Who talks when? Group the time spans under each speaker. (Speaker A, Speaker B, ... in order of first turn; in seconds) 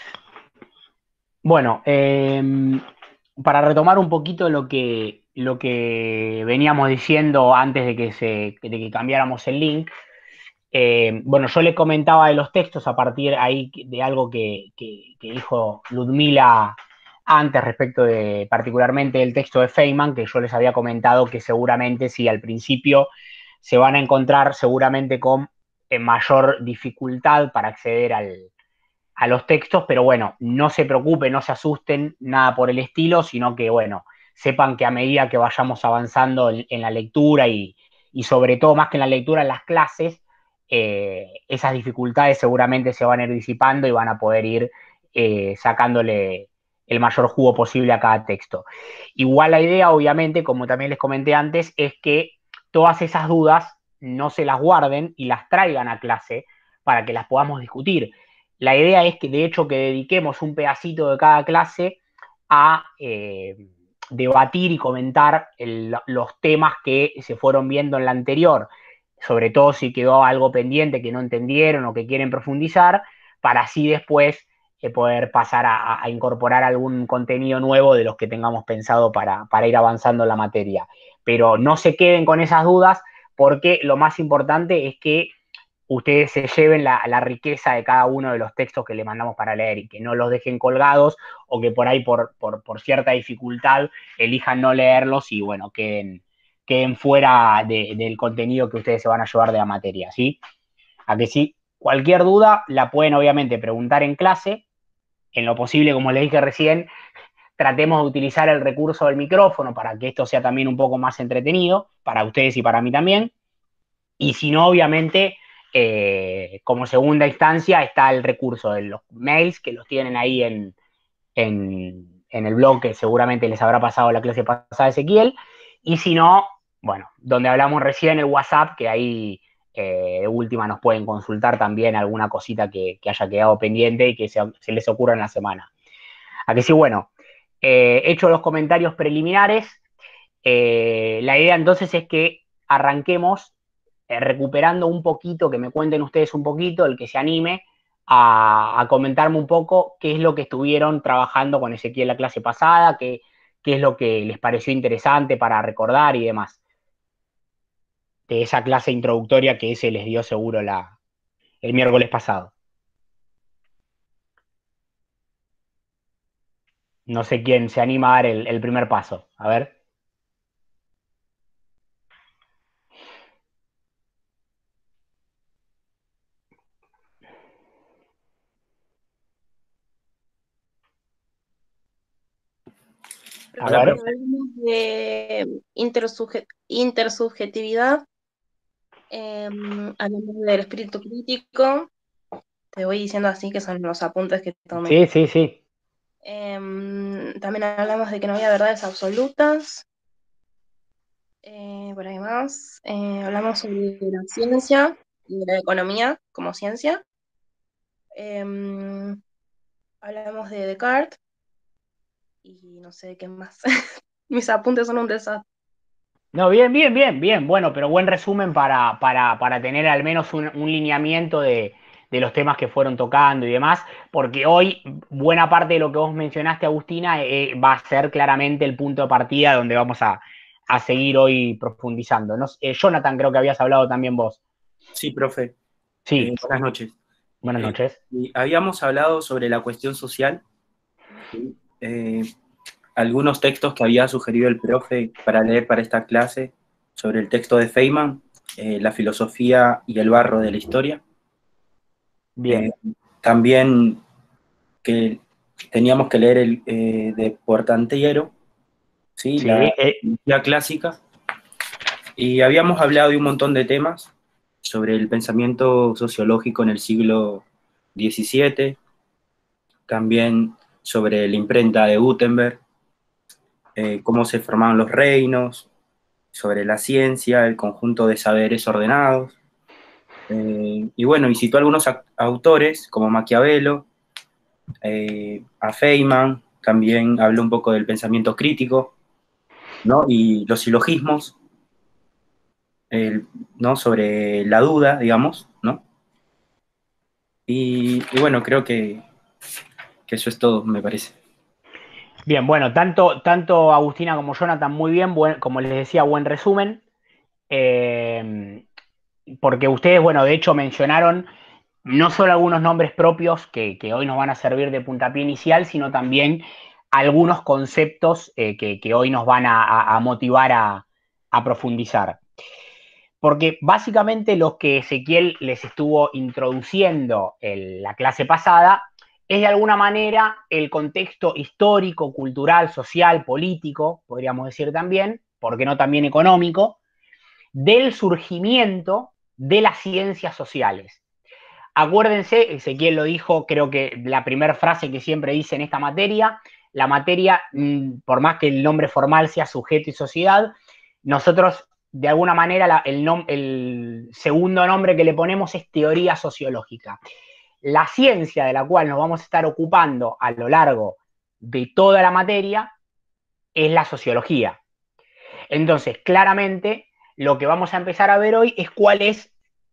Speaker A: 1.4-2.8, 3.4-9.9, 10.7-23.1, 23.6-28.5, 29.2-62.0, 62.5-85.3, 85.9-100.4, 101.1-104.6, 105.3-106.9, 107.6-113.3, 114.2-120.8, 121.4-135.7, 136.5-137.1, 137.6-139.8, 140.4-143.5, 144.1-156.6, 158.3-160.9, 161.6-162.5, 167.1-169.7, 183.6-184.0, 194.8-195.6, 216.3-234.4, 236.1-236.3, 237.4-238.0, 252.4-252.7, 259.4-260.0, 302.3-306.8, 307.5-308.6, 309.3-311.3, 311.9-322.2, 323.2-336.8, 337.5-341.0, 341.8-350.5, 351.0-357.0, 357.6-362.7, 363.6-364.6, 365.5-369.3
Speaker B: 183.5-188.0, 189.1-191.9, 192.7-195.0, 196.2-199.8, 201.4-207.0, 208.2-209.2, 210.0-211.2, 212.4-213.6, 214.3-215.4
Speaker C: 234.9-235.5, 236.2-236.9, 237.6-240.4, 241.3-242.3, 243.0-251.0, 252.5-254.0, 254.8-258.3, 259.2-261.0, 262.2-264.1, 264.6-268.8, 269.9-272.6, 273.8-275.7, 276.3-279.4, 280.3-283.9, 284.8-288.9, 289.8-291.4, 292.9-295.8, 297.5-299.0, 300.1-301.1